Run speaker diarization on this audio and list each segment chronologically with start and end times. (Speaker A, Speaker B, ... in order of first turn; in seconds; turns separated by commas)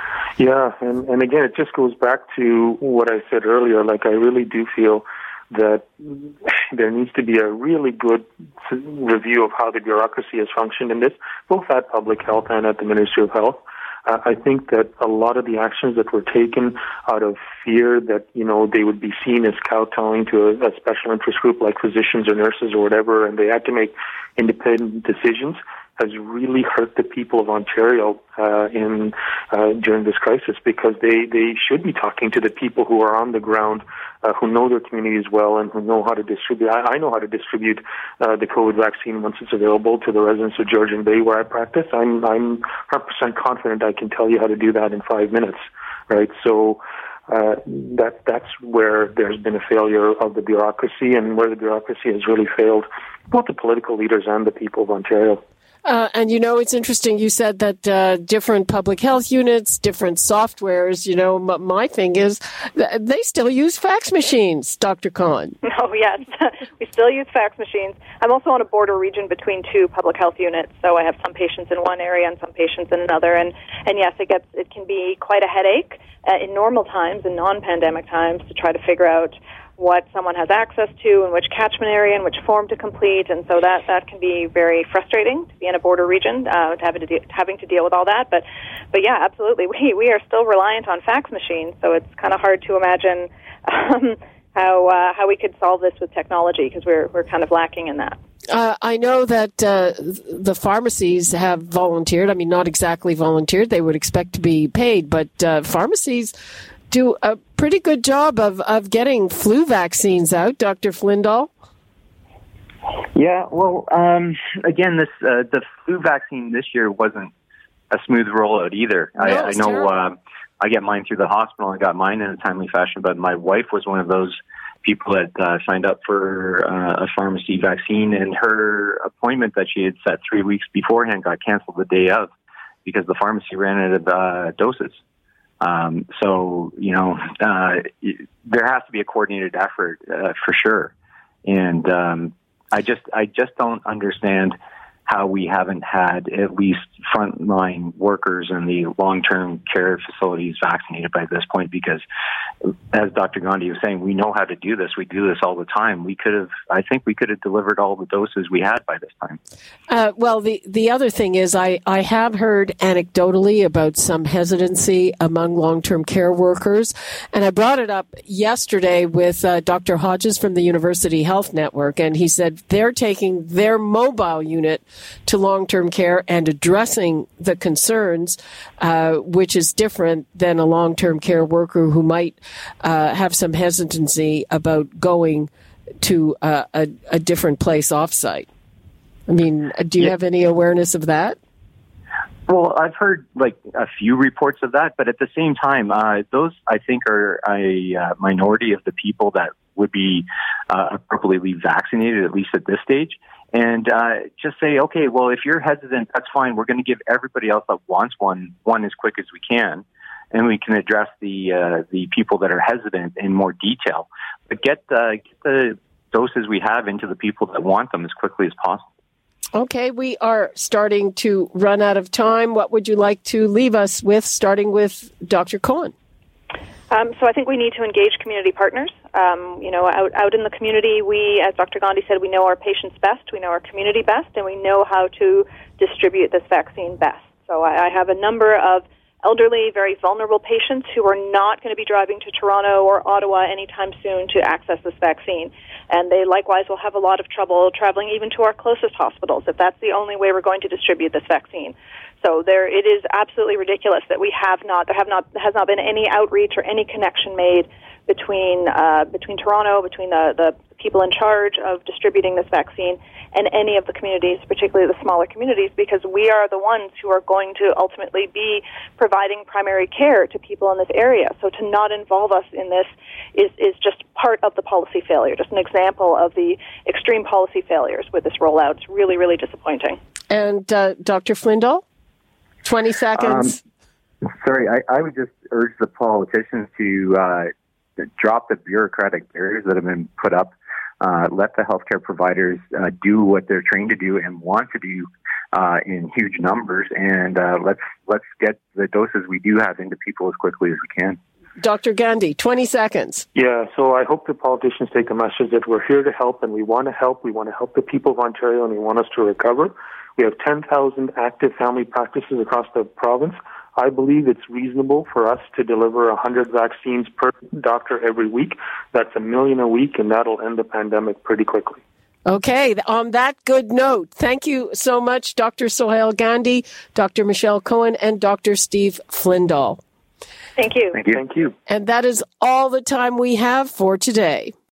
Speaker A: 0.4-55.4, Speaker B: 55.8-65.6, Speaker C: 65.6-98.2, Speaker B: 98.5-106.3, Speaker B: 106.9-111.5, Speaker D: 113.1-117.3, Speaker D: 117.9-132.3, Speaker B: 119.2-119.9, Speaker D: 132.8-135.0, Speaker D: 135.6-140.9, Speaker D: 141.4-144.6, Speaker D: 145.1-152.0, Speaker D: 152.6-159.4, Speaker B: 159.9-185.5, Speaker B: 186.0-188.5, Speaker B: 189.3-191.4, Speaker D: 192.5-218.8, Speaker B: 219.5-225.9, Speaker C: 226.9-280.0, Speaker B: 280.3-281.8, Speaker B: 282.6-283.6, Speaker D: 283.2-283.6, Speaker D: 284.4-301.2, Speaker B: 301.6-303.2, Speaker A: 303.3-321.8, Speaker B: 322.2-329.8, Speaker C: 330.6-331.0, Speaker D: 330.9-331.2, Speaker A: 331.1-331.5, Speaker B: 331.7-334.5